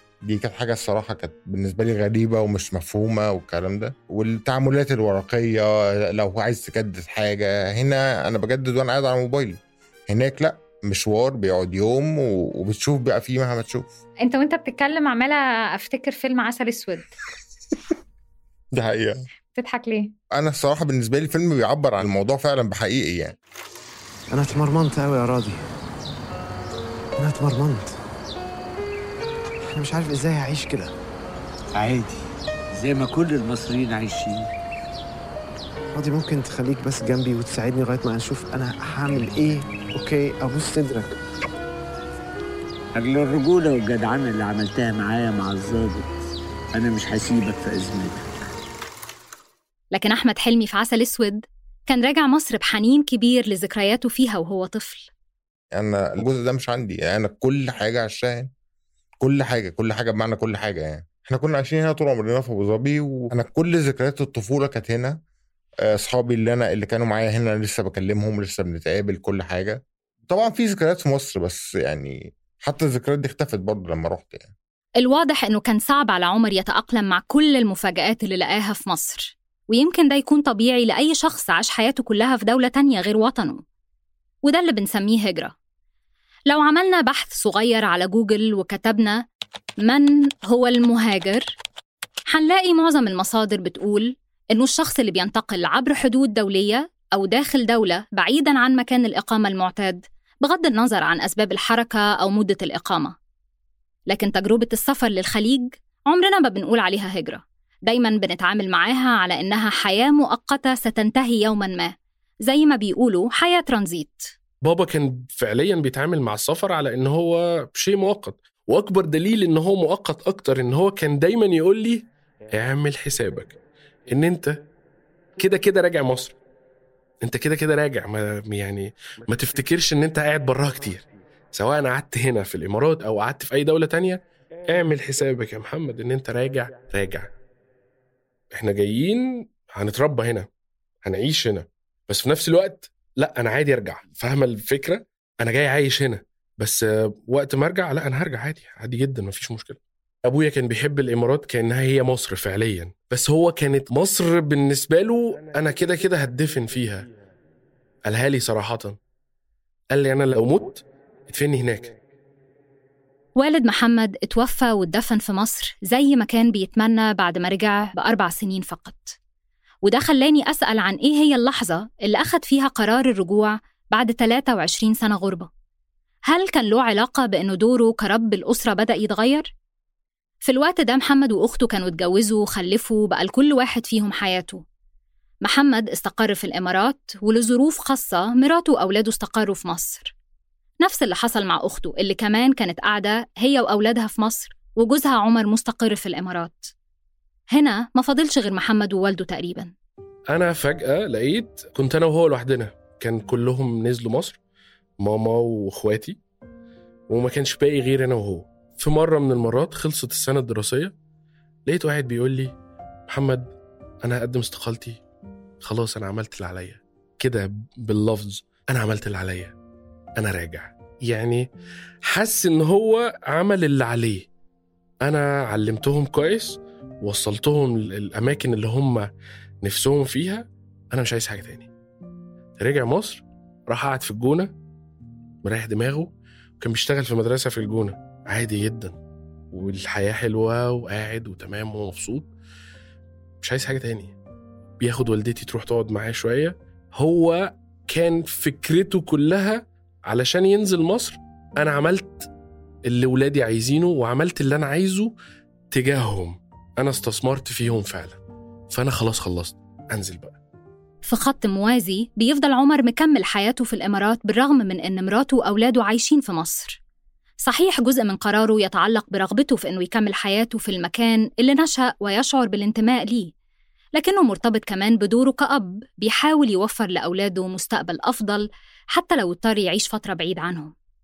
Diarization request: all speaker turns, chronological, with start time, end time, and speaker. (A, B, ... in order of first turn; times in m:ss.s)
0:00.2-0:13.9 A
0:14.2-0:17.1 B
0:18.7-0:19.2 A
0:19.5-0:20.1 B
0:20.3-0:23.4 A
0:24.3-0:25.7 C
0:27.2-0:27.9 C
0:29.7-0:30.9 C
0:31.7-0:32.2 D
0:32.7-0:34.5 D
0:35.9-0:41.1 C
0:42.9-0:48.3 D
0:49.9-0:55.1 E
0:55.7-0:58.5 A
0:59.2-1:05.2 A
1:05.8-1:14.5 A
1:15.0-1:23.6 E
1:24.4-1:25.5 E
1:26.5-1:29.2 E
1:29.8-1:31.5 E
1:32.3-1:43.1 E
1:44.1-1:51.9 E
1:52.4-1:54.3 E
1:54.6-2:03.6 F
2:04.1-2:04.5 F
2:05.4-2:06.4 F
2:07.2-2:17.3 F
2:18.5-2:20.5 F
2:21.0-2:37.1 F
2:38.1-2:39.0 F
2:39.9-2:42.0 F
2:43.4-2:49.2 E
2:49.8-2:55.5 E
2:56.3-2:59.5 E
3:00.4-3:04.6 E
3:05.4-3:10.1 E
3:10.8-3:16.7 E
3:17.5-3:19.7 E
3:20.3-3:24.4 F
3:25.0-3:26.2 F
3:27.1-3:30.9 F
3:31.7-3:32.5 F
3:33.1-3:33.5 F
3:34.0-3:35.0 F
3:35.6-3:39.5 F
3:40.2-3:41.4 F
3:42.1-3:44.2 F
3:45.0-3:49.1 F
3:49.6-3:51.7 F
3:52.6-3:54.5 F
3:55.4-3:59.0 F
3:59.5-4:02.3 F
4:03.4-4:04.1 F
4:04.8-4:12.3 F
4:12.9-4:15.1 F
4:15.7-4:18.2 F
4:18.7-4:20.4 F
4:21.0-4:26.8 E
4:27.4-4:33.3 E
4:33.9-4:40.7 E